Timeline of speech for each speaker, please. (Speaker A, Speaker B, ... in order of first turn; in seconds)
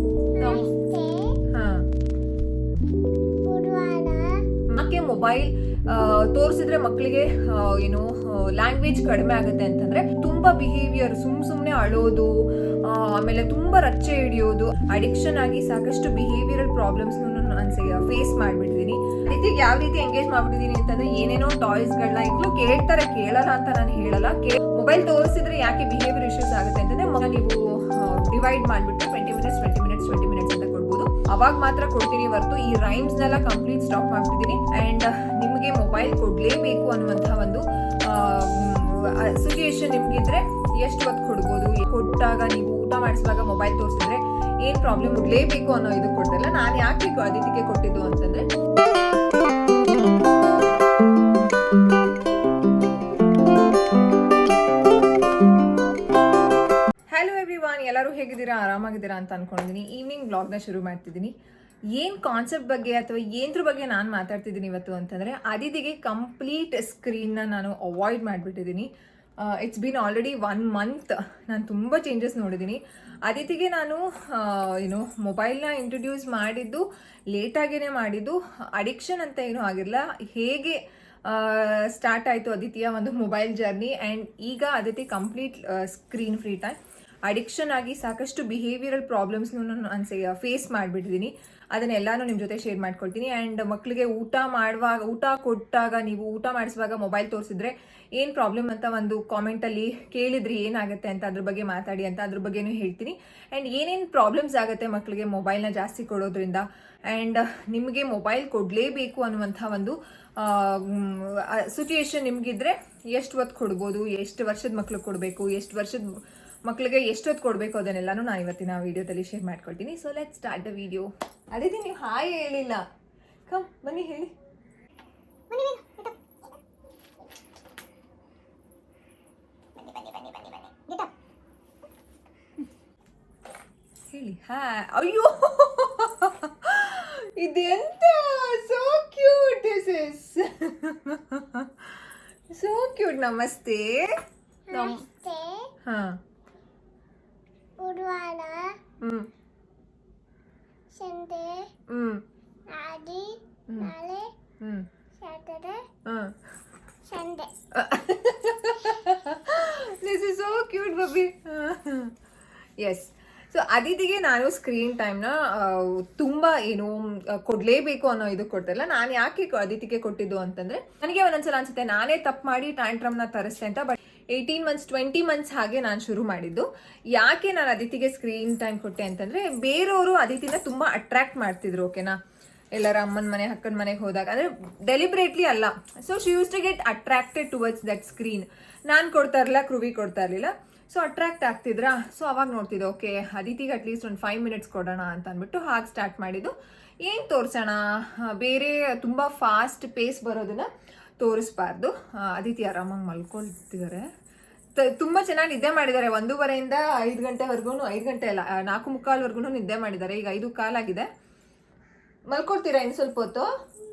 Speaker A: 0.3-1.4, 3.5-4.3, 125.5-126.1, 129.8-131.1, 144.7-145.7, 147.8-148.8, 150.9-151.7, 152.7-154.3, 155.2-155.9, 157.1-157.5
Speaker B: 0.4-0.7, 1.5-1.9, 4.7-12.3, 12.8-48.5, 57.1-61.3, 62.0-68.9, 69.4-116.0, 116.7-122.8, 123.5-124.3, 134.1-144.2, 144.7-145.0, 145.8-146.2, 149.0-149.3, 151.9-152.2, 153.7-153.9, 154.6-154.9, 156.1-156.4, 157.7-162.2, 162.8-182.2, 182.8-200.7, 201.2-204.1, 204.8-211.1, 212.3-213.5